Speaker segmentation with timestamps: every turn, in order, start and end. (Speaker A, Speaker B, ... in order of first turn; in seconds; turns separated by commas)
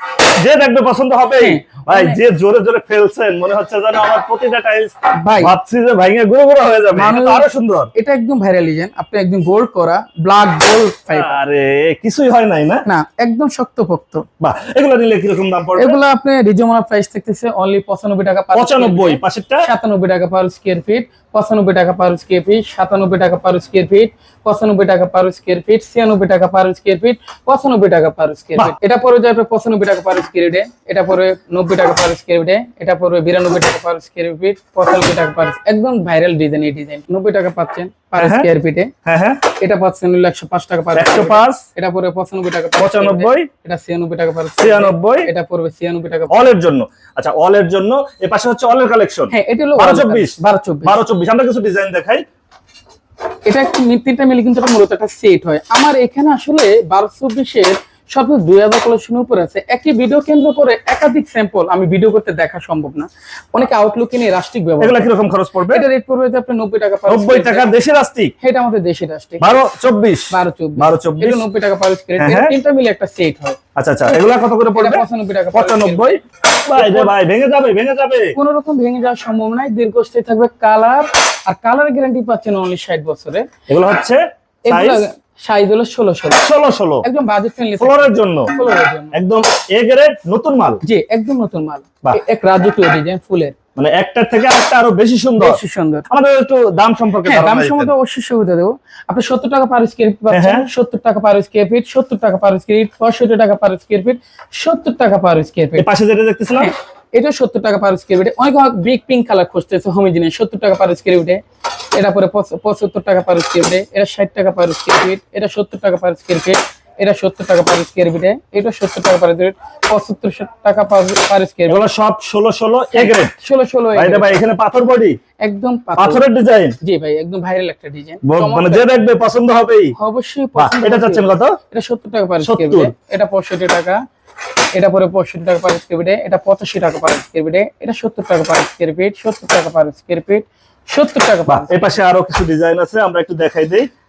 Speaker A: 0.4-7.9, Speaker B: 1.4-2.2, Speaker B: 5.1-5.5, Speaker B: 7.0-11.4, Speaker A: 11.1-12.8, Speaker B: 12.9-14.3, Speaker A: 14.4-16.0, Speaker B: 15.8-38.9, Speaker A: 18.6-19.7, Speaker A: 38.2-38.5, Speaker A: 39.0-39.4, Speaker B: 39.6-46.5, Speaker A: 41.0-41.6, Speaker A: 42.8-43.5, Speaker A: 44.6-45.3, Speaker A: 46.3-52.2, Speaker B: 49.3-51.0, Speaker B: 53.5-65.1, Speaker A: 64.8-65.8, Speaker B: 65.7-67.7, Speaker A: 67.1-68.3, Speaker B: 68.4-69.5, Speaker A: 69.4-71.5, Speaker B: 70.3-73.6, Speaker A: 72.2-72.5, Speaker A: 73.8-78.4, Speaker B: 74.8-76.2, Speaker B: 76.7-77.1, Speaker B: 78.3-83.5, Speaker A: 83.7-85.0, Speaker B: 84.7-86.4, Speaker A: 86.4-87.0, Speaker B: 87.0-89.1, Speaker A: 87.8-88.5, Speaker A: 89.1-90.8, Speaker B: 90.8-93.6, Speaker A: 93.8-97.9, Speaker B: 95.4-96.0, Speaker B: 97.2-105.9, Speaker A: 100.3-100.7, Speaker A: 105.8-106.7, Speaker B: 106.5-111.4, Speaker B: 111.9-121.9, Speaker A: 121.7-123.3, Speaker B: 122.9-124.4, Speaker A: 123.9-125.2, Speaker B: 125.4-126.2, Speaker A: 126.0-126.8, Speaker B: 126.8-128.9, Speaker A: 128.2-129.9, Speaker B: 130.0-134.0, Speaker A: 130.6-131.6, Speaker A: 132.4-132.9, Speaker B: 134.7-141.8, Speaker A: 141.5-143.9